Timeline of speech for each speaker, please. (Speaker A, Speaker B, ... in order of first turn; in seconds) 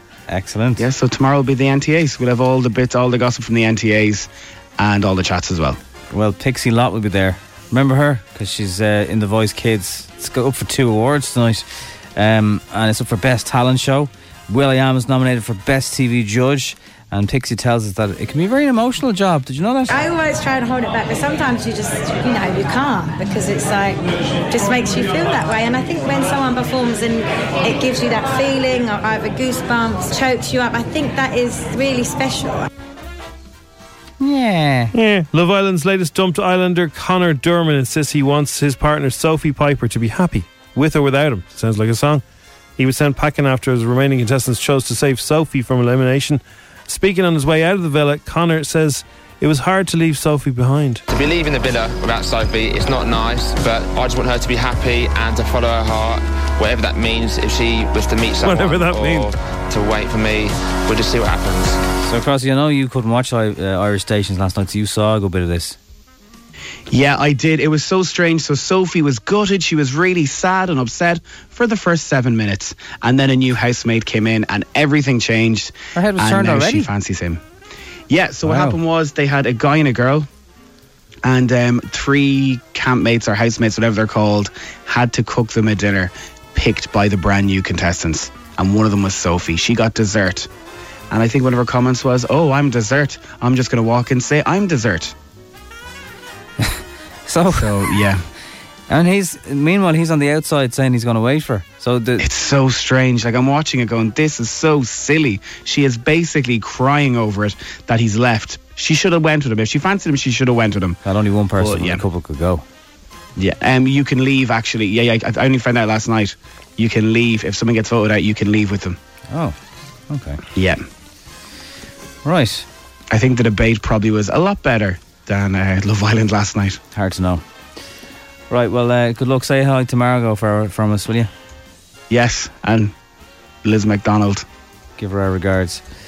Speaker A: 0.3-0.8, 6.1-19.9, 34.2-34.9, 62.0-65.8, 76.0-76.9, 78.5-78.8, 96.6-97.9, 98.9-102.2, 111.0-112.7, 119.3-119.6, 120.1-120.4, 122.2-122.7, 126.9-127.4, 128.5-131.3, 135.0-135.8
Speaker B: 0.8-5.8, 66.9-77.4, 78.1-80.3, 81.2-90.5, 91.1-95.1, 97.5-98.3, 102.2-111.0, 111.6-112.0, 113.4-119.0, 120.5-120.8, 123.1-126.8, 132.1-132.9, 133.6-134.4
Speaker C: 19.9-32.7
Speaker D: 34.9-42.2, 42.8-51.0, 58.4-59.3
Speaker E: 51.1-61.8